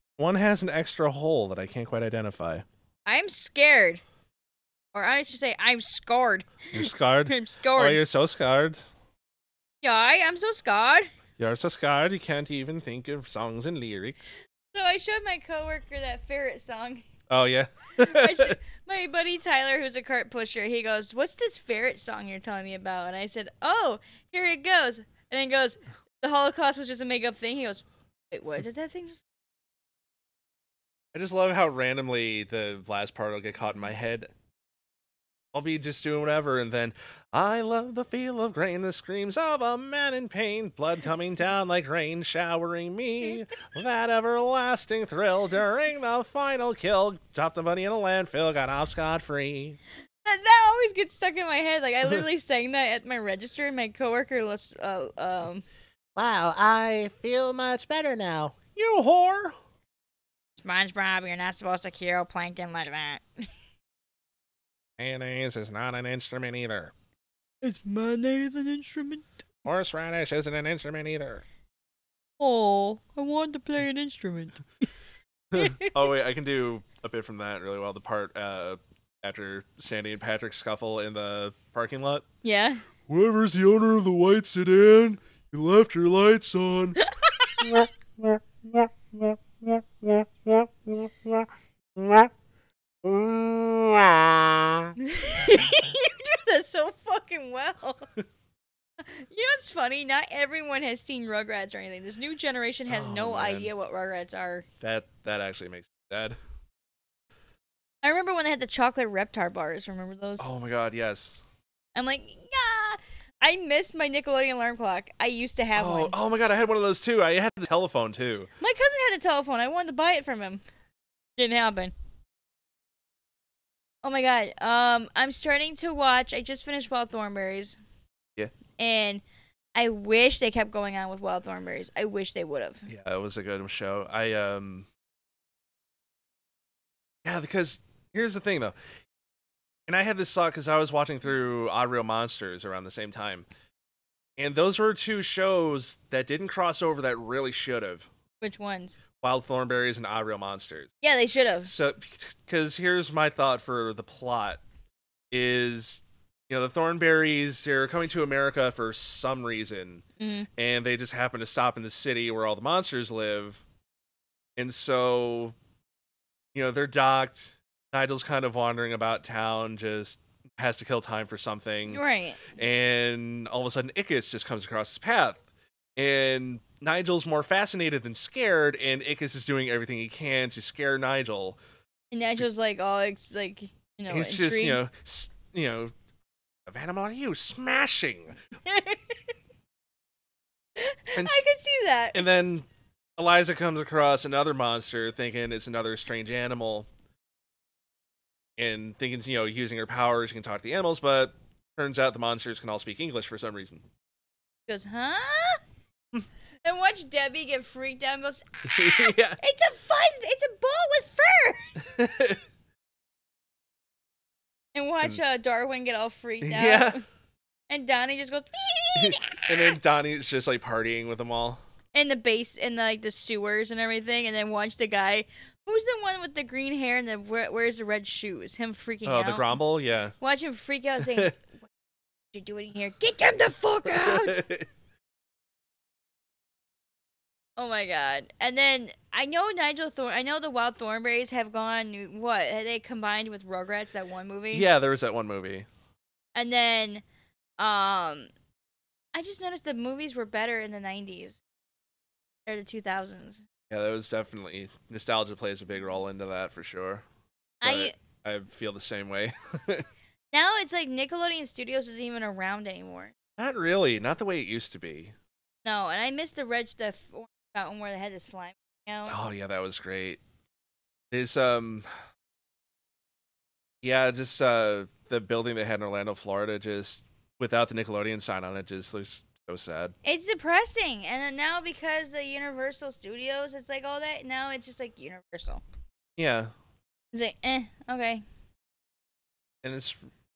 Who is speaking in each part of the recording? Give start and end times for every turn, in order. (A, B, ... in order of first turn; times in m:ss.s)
0:00.2-0:02.6 A
0:03.0-0:04.0 B
0:04.9-0:08.0 B
0:06.7-0:08.8 A
0:09.8-0:11.1 B
0:11.4-0:14.4 A
0:14.7-0:17.0 B
0:17.3-0:18.6 A
0:18.0-0:29.2 B
0:31.1-0:34.3 A
0:35.5-0:49.8 A
0:50.2-0:55.6 B
0:56.2-0:59.6 A
1:00.6-1:03.5 B
1:05.0-1:06.9 A
1:07.6-1:09.3 B
1:09.6-1:11.4 A
1:12.4-1:14.9 B
1:15.5-1:22.2 A
1:15.6-1:15.9 B
1:22.4-1:22.8 B
1:23.1-1:27.0 A
1:27.0-1:27.6 B
1:27.6-1:32.3 A
1:33.0-1:34.9 A
1:35.0-1:38.1 B
1:39.0-1:44.6 B
1:42.9-1:43.7 A
1:44.8-1:46.4 A
1:48.0-1:50.5 B
1:50.4-1:51.4 A
1:51.9-1:56.1 B
1:55.8-1:58.5 A
1:58.6-2:00.6 B
2:01.4-2:01.9 B
2:04.0-2:07.8 B
2:08.8-2:09.2 B
2:09.7-2:12.9 B
2:12.9-2:14.9 A
2:17.2-2:18.8 A
2:19.9-2:23.5 A
2:24.4-2:28.1 A
2:28.4-2:29.0 B
2:29.2-2:30.9 A
2:31.0-2:31.7 B
2:31.6-2:34.6 A
2:35.3-2:40.0 A
2:40.2-2:40.5 B
2:40.6-2:43.6 A
2:44.6-2:45.5 A
2:46.5-2:52.0 A
2:51.9-2:52.5 B
2:52.5-2:55.4 A
2:56.0-3:01.6 A
3:02.1-3:04.8 B
3:04.1-3:05.9 A
3:06.6-3:08.4 A
3:08.7-3:09.0 B
3:10.8-3:12.2 B
3:11.1-3:11.4 A
3:12.1-3:16.9 A
3:18.6-3:23.8 A
3:24.7-3:25.6 B
3:26.6-3:31.7 B
3:28.7-3:29.4 A
3:31.9-3:32.4 A
3:34.7-3:37.0 B
3:36.4-3:37.0 A
3:37.7-3:39.8 B
3:39.0-3:41.6 A
3:41.9-3:49.6 B
3:49.0-3:50.1 A
3:50.2-3:51.6 B
3:51.0-3:51.3 A
3:52.3-3:54.4 B
3:53.8-3:54.7 A
3:57.6-4:04.7 B
4:04.5-4:05.7 A
4:06.3-4:07.0 B
4:07.6-4:08.3 B
4:09.1-4:11.4 B
4:12.4-4:13.4 B
4:13.7-4:17.0 A
4:17.6-4:17.9 B
4:17.6-4:19.9 A
4:20.3-4:23.1 B
4:23.4-4:25.1 A
4:25.6-4:29.2 B
4:29.1-4:30.2 A
4:31.1-4:31.9 A
4:33.8-4:39.9 A
4:40.0-4:45.6 B
4:46.2-4:46.5 A
4:47.1-4:48.2 B
4:49.6-4:50.0 A